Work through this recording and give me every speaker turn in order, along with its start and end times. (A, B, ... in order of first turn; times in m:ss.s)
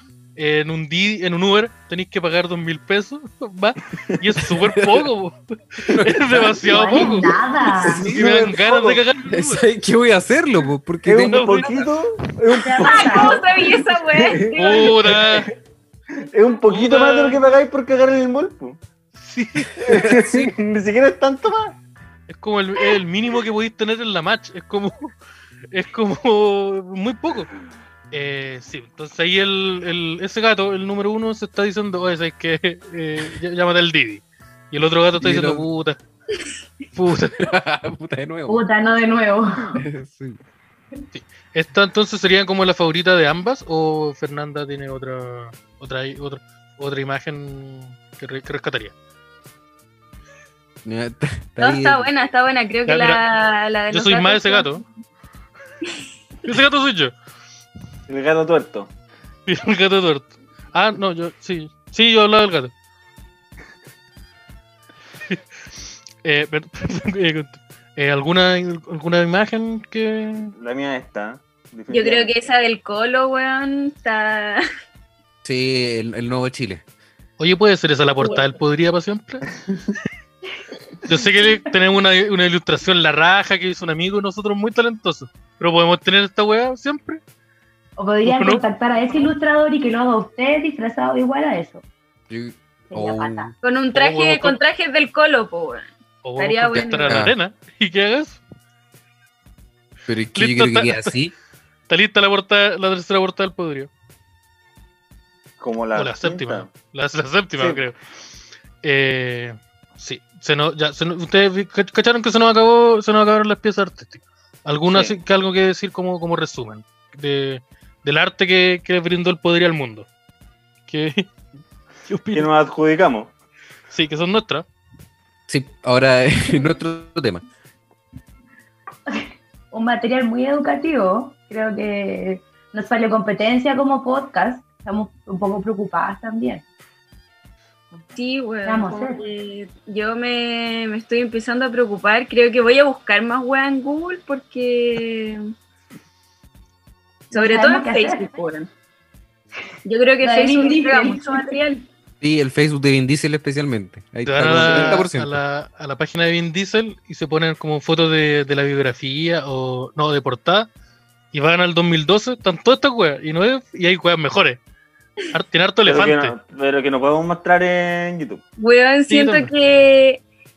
0:00.4-0:07.3 A
0:04.8-0:05.1 B
0:05.9-0:07.2 B
0:06.7-0:08.1 C
0:07.8-0:08.7 B
0:07.8-0:09.0 D
0:08.0-0:09.6 A
0:09.3-0:11.8 B
0:11.0-0:15.5 D
0:11.2-0:11.8 A
0:12.6-0:13.4 C
0:12.8-0:15.0 E
0:14.6-0:15.5 A
0:16.2-0:18.8 D
0:16.7-0:17.4 A
0:19.2-0:19.8 A
0:19.8-0:20.5 B
0:19.8-0:21.8 D
0:22.3-0:25.2 A
0:25.7-0:27.5 A
0:28.1-0:36.0 A
0:35.2-0:35.7 B
0:36.9-0:37.4 A
0:37.4-0:38.6 B
0:38.5-0:39.8 C
0:39.7-0:40.4 B
0:41.1-0:48.9 A
0:50.8-0:52.1 B
0:51.6-0:54.8 E
0:52.9-0:53.2 A
0:53.9-0:54.8 A
0:56.4-0:57.1 A
0:58.1-0:58.9 D
0:59.5-1:02.7 A
1:06.2-1:10.5 A
1:10.6-1:12.4 D
1:11.9-1:14.6 E
1:15.4-1:16.8 B
1:17.4-1:19.5 A
1:18.2-1:18.5 E
1:21.1-1:27.2 A
1:28.0-1:31.8 C
1:28.2-1:28.6 A
1:32.3-1:33.5 B
1:32.9-1:33.5 C
1:33.6-1:37.3 E
1:33.9-1:34.6 A
1:36.2-1:38.4 A
1:36.7-1:37.3 B
1:40.1-1:41.3 B
1:40.4-1:41.1 A
1:41.9-1:43.9 A
1:45.6-1:46.7 D
1:46.0-1:48.0 A
1:47.6-1:47.8 D
1:48.8-2:00.1 A
1:54.9-1:55.2 D
2:00.9-2:01.3 A
2:02.1-2:02.5 A
2:02.3-2:03.3 D
2:03.9-2:04.7 A
2:05.5-2:07.4 B
2:09.1-2:16.6 C
2:18.2-2:25.4 E
2:18.6-2:19.2 C
2:27.3-2:28.7 E
2:27.3-2:28.3 C
2:29.8-2:31.9 E
2:30.2-2:31.5 C
2:32.2-2:35.4 B
2:34.3-2:40.7 A
2:41.3-2:44.6 A
2:45.3-2:46.4 A
2:45.9-2:48.4 D
2:48.6-2:50.2 E
2:49.1-2:49.5 A